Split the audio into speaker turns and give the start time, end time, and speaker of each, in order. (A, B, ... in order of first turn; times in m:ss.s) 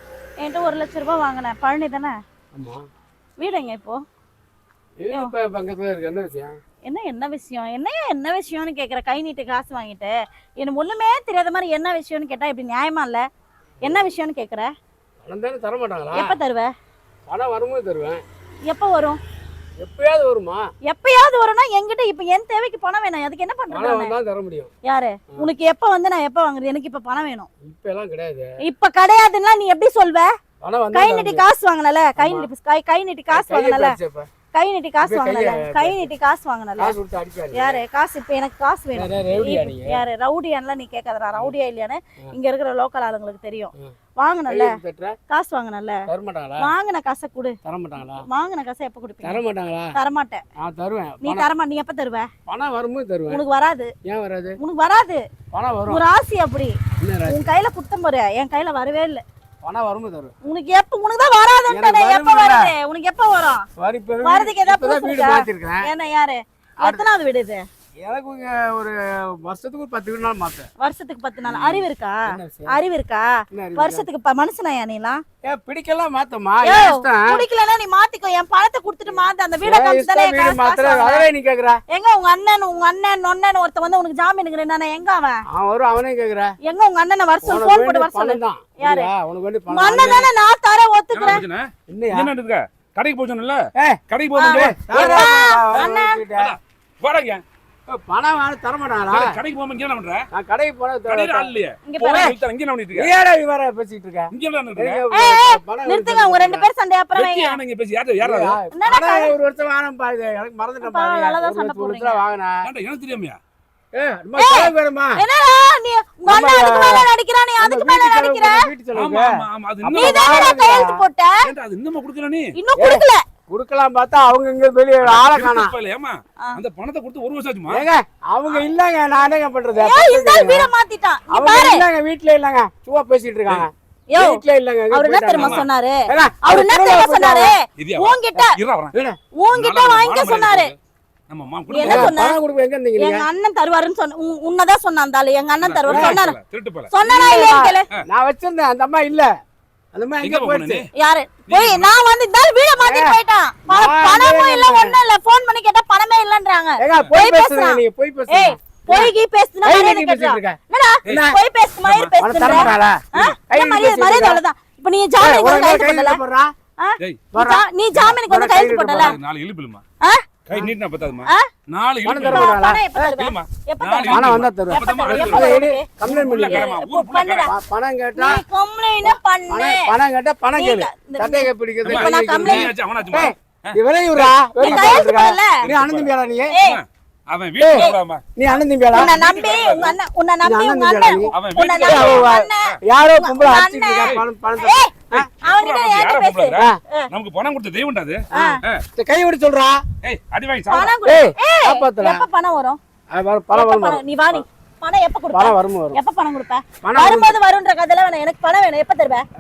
0:00.4-0:02.2 A
0:02.5-0:02.8 B
0:03.4-0:04.0 A
0:05.0-0:06.6 B
0:06.9-0:13.2 A
0:13.8-0:14.7 A
0:15.2-0:16.4 B
0:16.1-0:16.7 A
0:17.3-0:18.2 B
0:18.7-0:19.2 A
0:19.8-0:20.6 B
0:20.9-0:24.1 A
0:23.7-0:24.7 B
0:24.8-0:27.5 A
0:27.6-0:28.5 B
0:28.6-0:30.3 A
0:30.6-0:31.5 B
0:30.9-0:34.0 A
0:32.2-0:32.5 B
0:33.3-0:34.3 B
0:34.5-0:37.0 A
0:35.0-0:36.1 B
0:36.8-0:37.8 B
0:37.5-0:44.8 A
0:39.0-0:40.0 B
0:44.5-0:45.2 B
0:45.3-0:46.0 A
0:46.1-0:46.7 B
0:46.6-0:49.4 A
0:47.6-0:48.2 B
0:49.2-0:50.0 B
0:50.0-0:50.4 A
0:50.6-0:51.5 B
0:51.2-0:52.3 A
0:52.5-0:53.4 B
0:53.3-0:53.9 A
0:54.0-0:54.6 B
0:54.6-0:55.2 A
0:55.5-0:56.0 B
0:55.9-0:56.8 A
0:57.0-0:57.5 B
0:57.3-0:59.2 A
0:59.6-1:00.3 B
1:00.4-1:03.7 A
1:01.7-1:02.8 B
1:03.8-1:05.9 B
1:04.2-1:07.6 A
1:06.8-1:07.1 B
1:08.0-1:10.7 B
1:10.8-1:15.2 A
1:11.4-1:12.8 B
1:13.5-1:14.1 B
1:15.4-1:17.4 B
1:16.6-1:21.3 A
1:19.1-1:21.8 B
1:21.9-1:25.4 A
1:25.5-1:26.5 B
1:26.7-1:29.1 A
1:27.4-1:30.3 B
1:29.7-1:31.4 A
1:31.1-1:35.4 C
1:31.9-1:32.3 B
1:33.8-1:36.6 B
1:34.4-1:36.2 A
1:36.3-1:37.4 C
1:37.9-1:39.4 B
1:39.1-1:40.2 C
1:40.3-1:41.6 B
1:41.1-1:43.1 C
1:41.9-1:42.4 A
1:42.9-1:46.7 B
1:44.3-1:45.0 C
1:45.1-1:47.6 A
1:47.2-1:48.6 C
1:48.2-1:52.7 B
1:48.7-1:49.3 A
1:50.8-1:52.2 A
1:52.6-1:53.4 C
1:53.9-1:55.2 B
1:54.4-1:58.7 A
1:56.3-2:01.0 B
1:58.9-2:00.6 C
1:59.9-2:01.5 A
2:01.4-2:02.5 C
2:02.6-2:03.2 A
2:02.8-2:05.8 B
2:05.0-2:07.9 C
2:07.7-2:10.7 B
2:09.8-2:11.8 A
2:11.3-2:17.6 B
2:14.1-2:18.6 A
2:15.3-2:15.7 C
2:17.8-2:18.9 C
2:18.9-2:19.2 B
2:19.4-2:20.7 A
2:19.5-2:20.8 C
2:21.3-2:22.2 C
2:21.7-2:22.4 A
2:21.8-2:23.3 B
2:23.0-2:26.4 A
2:25.6-2:26.9 C
2:25.9-2:26.2 B
2:26.9-2:27.9 A
2:27.0-2:29.3 B
2:29.9-2:30.8 B
2:30.2-2:30.9 C
2:31.0-2:46.2 A
2:31.5-2:31.9 C
2:32.8-2:35.0 B
2:36.8-2:39.1 B
2:39.6-2:41.4 B
2:41.9-2:43.4 C
2:42.2-2:44.4 B
2:45.2-2:46.5 B
2:46.8-2:49.2 A
2:47.3-2:49.2 B
2:48.9-2:49.8 C
2:50.5-2:57.5 C
2:52.0-2:52.8 B
2:52.2-2:57.5 A
2:54.1-2:56.7 B
2:57.5-2:58.4 B
2:58.2-2:59.9 A
2:59.0-3:06.5 B
3:00.6-3:02.7 A
3:01.9-3:05.0 C
3:04.6-3:05.6 A
3:05.6-3:06.1 C
3:06.5-3:06.8 A
3:06.6-3:08.2 C
3:07.6-3:09.1 B
3:08.9-3:10.0 C
3:08.9-3:17.1 A
3:10.4-3:15.3 B
3:11.3-3:12.3 C
3:15.2-3:18.8 C
3:18.3-3:18.6 A
3:18.4-3:19.8 B
3:20.0-3:21.0 C
3:20.7-3:22.8 A
3:21.0-3:22.2 B
3:23.1-3:24.4 B
3:23.5-3:29.2 A
3:25.3-3:26.0 B
3:26.8-3:27.4 B